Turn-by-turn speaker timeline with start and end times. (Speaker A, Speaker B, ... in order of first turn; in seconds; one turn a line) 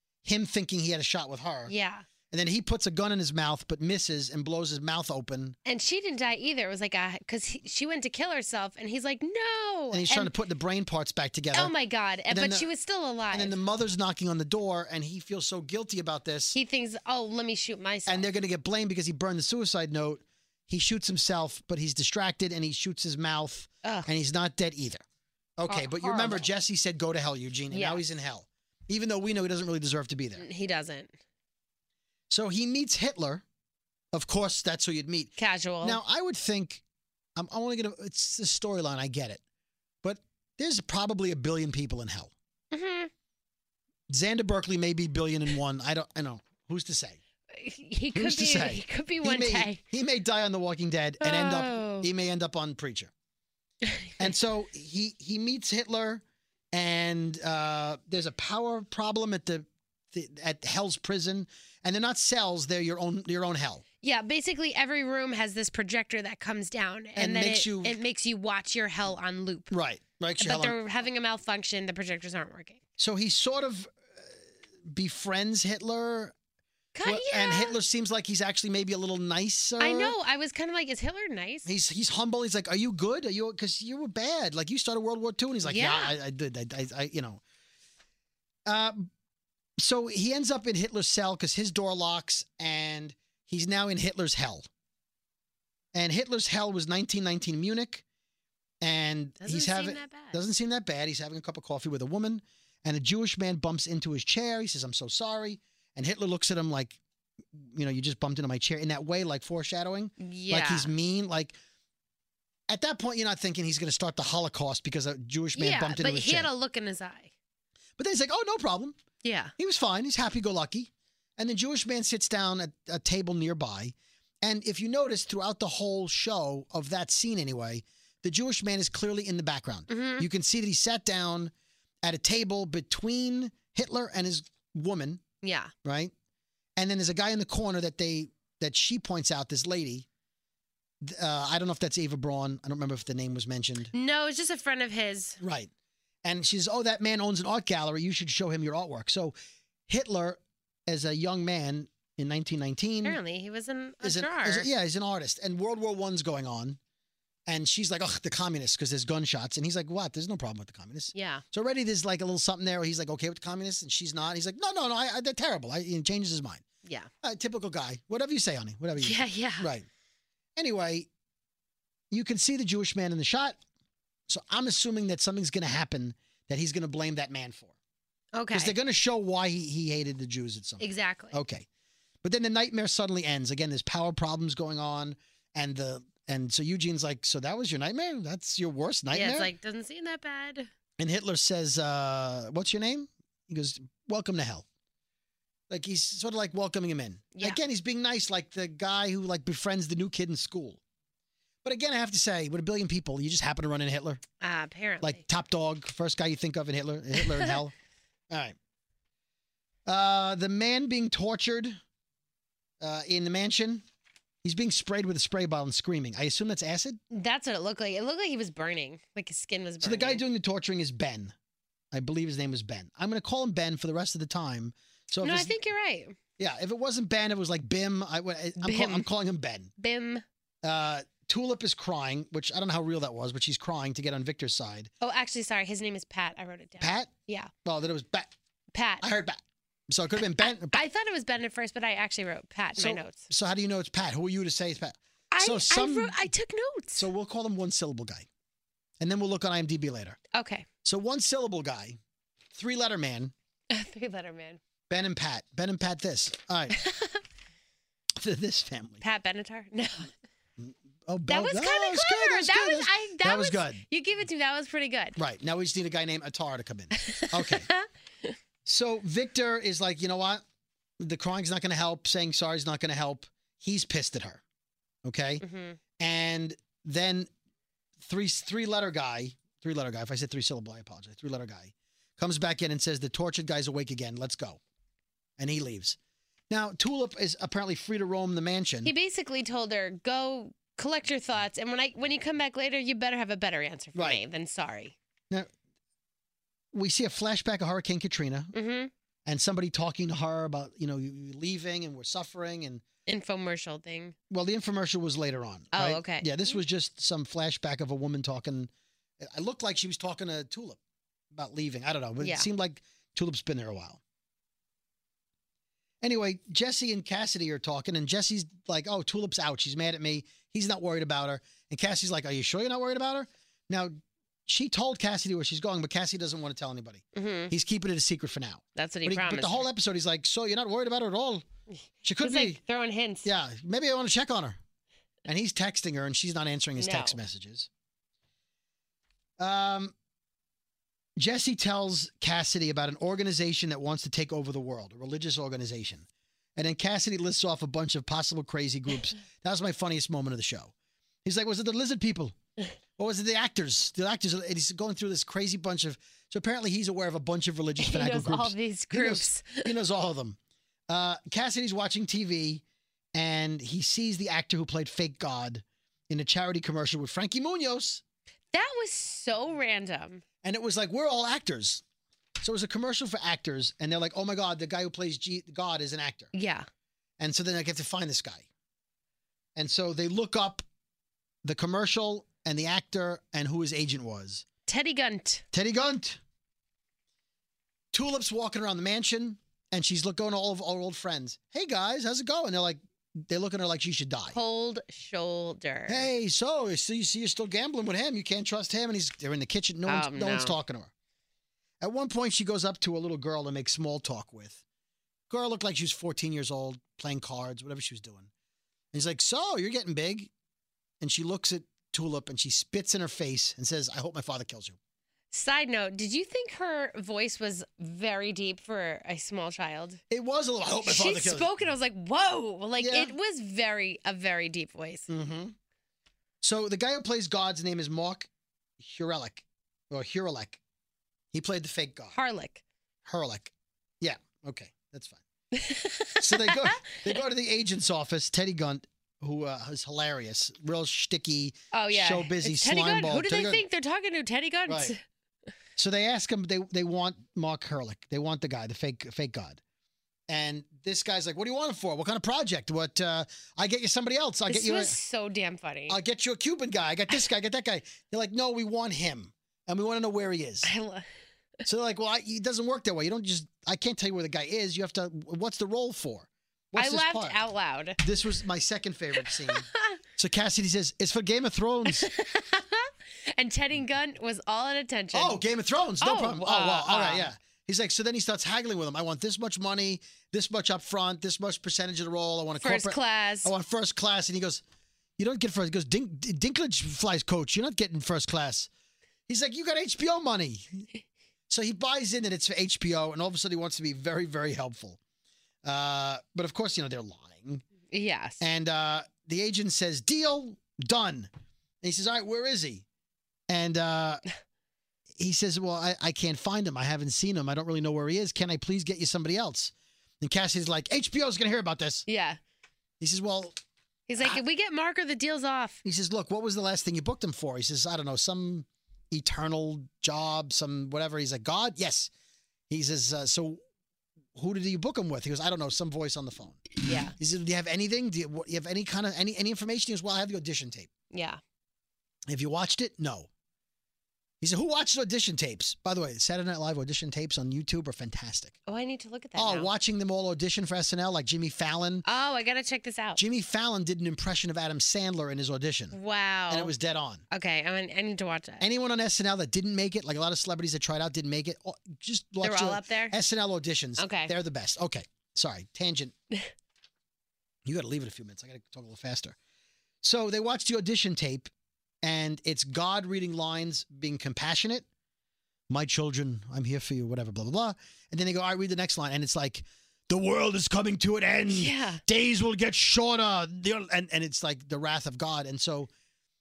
Speaker A: 0.2-1.7
Speaker B: 1.7-2.0
Speaker A: 2.3-5.5
Speaker B: 5.6-10.3
Speaker A: 9.9-11.7
Speaker B: 11.5-13.6
Speaker A: 12.3-12.7
Speaker A: 13.3-16.6
Speaker B: 16.5-18.3
Speaker A: 18.1-25.0
Speaker B: 23.8-24.1
Speaker A: 25.6-30.4
Speaker B: 25.7-26.5
Speaker B: 27.7-28.0
Speaker B: 30.4-31.1
Speaker A: 32.3-33.4
Speaker A: 34.1-36.8
Speaker B: 35.4-36.0
Speaker A: 37.4-39.4
Speaker A: 40.0-42.3
Speaker B: 42.7-43.1
Speaker A: 44.1-47.2
Speaker B: 47.5-49.8
Speaker A: 48.1-53.1
Speaker B: 51.2-52.1
Speaker A: 54.2-63.8
Speaker B: 64.0-69.7
Speaker A: 67.2-68.0
Speaker A: 69.7-70.8
Speaker B: 70.4-72.8
Speaker A: 73.0-76.3
Speaker B: 76.9-77.7
Speaker A: 77.0-80.1
Speaker B: 79.8-81.7
Speaker A: 81.7-87.4
Speaker B: 85.6-86.1
Speaker A: 88.7-89.1
Speaker A: 89.8-94.7
Speaker A: 95.9-98.0
Speaker A: 98.8-107.0
Speaker B: 99.4-100.4
Speaker A: 107.5-111.6
Speaker B: 110.2-110.9
Speaker A: 112.7-116.5
Speaker B: 115.5-117.3
Speaker A: 118.0-119.0
Speaker B: 119.2-119.5
Speaker A: 119.6-131.5
Speaker B: 129.9-130.2
Speaker A: 132.0-135.2
Speaker B: 135.4-135.7
Speaker A: 135.8-136.1
Speaker A: 136.8-140.1
Speaker A: 141.0-143.9
Speaker B: 143.9-145.4
Speaker A: 145.4-145.7
Speaker A: 146.2-149.3
Speaker A: 149.9-153.2
Speaker B: 153.0-154.7
Speaker A: 154.0-156.8
Speaker A: 157.5-166.6
Speaker B: 161.1-161.4
Speaker B: 166.8-167.1
Speaker A: 167.2-169.9
Speaker B: 169.0-169.7
Speaker A: 170.6-171.1
Speaker A: 172.1-173.6
Speaker A: 174.3-177.7
Speaker B: 178.3-178.7
Speaker A: 178.5-181.7
Speaker B: 180.8-181.4
Speaker A: 182.2-189.5
Speaker B: 189.1-190.7
Speaker A: 191.0-194.6
Speaker A: 195.7-200.8
Speaker B: 197.3-197.6
Speaker A: 201.6-204.2
Speaker B: 204.4-205.2
Speaker A: 205.0-207.7
Speaker B: 207.2-207.5
Speaker A: 208.3-208.6
Speaker A: 209.8-211.8
Speaker A: 212.8-213.8
Speaker A: 214.4-217.0
Speaker B: 217.1-220.2
Speaker A: 219.8-221.3
Speaker A: 221.9-225.6
Speaker B: 225.2-226.2
Speaker A: 226.4-229.7
Speaker B: 228.6-229.1
Speaker B: 229.8-230.2
Speaker A: 230.6-234.9
Speaker B: 235.0-237.5
Speaker A: 236.8-237.1
Speaker A: 237.6-238.3
Speaker B: 238.7-239.1
Speaker A: 239.0-240.8
Speaker B: 240.4-243.3
Speaker A: 242.8-246.1
Speaker B: 245.3-247.1
Speaker A: 247.0-248.3
Speaker A: 249.0-250.2
Speaker B: 250.3-250.7
Speaker A: 250.8-252.0
Speaker A: 252.5-253.3
Speaker B: 253.7-254.6
Speaker A: 254.9-256.8
Speaker B: 256.7-257.2
Speaker A: 258.2-259.0
Speaker B: 259.0-260.1
Speaker A: 260.6-263.8
Speaker B: 261.3-265.2
Speaker A: 265.2-267.7
Speaker B: 266.9-268.3
Speaker A: 268.6-270.4
Speaker A: 271.0-274.4
Speaker A: 275.0-275.4
Speaker B: 275.4-275.8
Speaker A: 276.0-277.3
Speaker A: 278.0-284.6
Speaker A: 285.4-286.0
Speaker A: 286.5-288.9
Speaker B: 288.8-294.9
Speaker A: 293.9-294.2
Speaker A: 296.7-298.5
Speaker B: 298.5-298.9
Speaker A: 299.2-302.8
Speaker B: 303.1-304.1
Speaker A: 304.3-310.8
Speaker B: 305.7-306.6
Speaker A: 311.3-314.0
Speaker B: 312.2-312.5
Speaker A: 316.0-323.9
Speaker A: 324.4-331.4
Speaker B: 327.1-327.5
Speaker B: 328.8-329.7
Speaker A: 332.0-332.6
Speaker B: 332.2-333.3
Speaker A: 333.2-334.6
Speaker A: 335.2-337.7
Speaker B: 336.8-337.2
Speaker A: 339.4-339.9
Speaker A: 341.2-350.7
Speaker A: 351.2-352.4
Speaker A: 353.0-360.4
Speaker B: 357.8-359.7
Speaker A: 360.9-362.6
Speaker A: 363.1-368.0
Speaker B: 368.5-370.2
Speaker A: 370.4-371.8
Speaker A: 372.4-376.3
Speaker B: 376.3-376.6
Speaker A: 377.2-378.5
Speaker A: 379.6-380.6
Speaker A: 381.4-384.4
Speaker B: 384.7-385.4
Speaker A: 385.5-386.2
Speaker A: 387.9-394.4
Speaker B: 394.3-396.1
Speaker A: 395.9-400.9
Speaker B: 399.9-400.6
Speaker A: 401.8-404.6
Speaker A: 405.3-408.3
Speaker A: 408.9-410.3
Speaker A: 411.0-414.8
Speaker B: 415.3-420.0
Speaker A: 420.1-421.6
Speaker B: 420.8-425.1
Speaker A: 422.8-423.1
Speaker A: 425.1-425.5
Speaker A: 426.4-430.6
Speaker A: 431.3-432.1
Speaker B: 432.1-432.6
Speaker A: 433.1-435.2
Speaker B: 435.5-437.0
Speaker A: 436.2-443.6
Speaker B: 441.7-445.0
Speaker A: 444.7-444.9
Speaker A: 445.8-449.6
Speaker A: 450.3-455.0
Speaker B: 454.5-456.0
Speaker A: 455.9-460.7
Speaker B: 460.6-461.1
Speaker A: 461.6-467.4
Speaker B: 466.8-468.0
Speaker A: 468.0-472.1
Speaker B: 469.3-470.0
Speaker B: 471.9-475.4
Speaker A: 475.1-484.6
Speaker B: 476.0-477.3
Speaker B: 482.6-483.5
Speaker A: 485.2-488.7
Speaker A: 489.3-490.9
Speaker A: 491.5-495.0
Speaker A: 495.6-497.6
Speaker B: 497.9-498.4
Speaker A: 498.4-501.3
Speaker A: 501.8-502.8
Speaker A: 503.5-504.2
Speaker A: 505.1-512.0
Speaker B: 512.1-512.4
Speaker A: 513.0-513.6
Speaker B: 514.1-515.8
Speaker A: 515.8-522.1
Speaker A: 522.7-523.6
Speaker A: 524.3-530.9
Speaker B: 526.8-527.1
Speaker B: 531.1-531.4
Speaker A: 532.3-533.3
Speaker A: 534.4-538.5
Speaker B: 538.7-539.7
Speaker A: 539.4-542.0
Speaker B: 542.0-543.2
Speaker A: 543.2-545.9
Speaker B: 545.9-546.7
Speaker A: 546.5-547.2
Speaker B: 547.3-548.6
Speaker A: 548.6-556.1
Speaker B: 552.4-553.1
Speaker B: 554.0-554.3
Speaker A: 557.6-559.4
Speaker A: 560.0-561.5
Speaker A: 562.0-564.9
Speaker A: 565.7-575.9
Speaker B: 571.5-572.0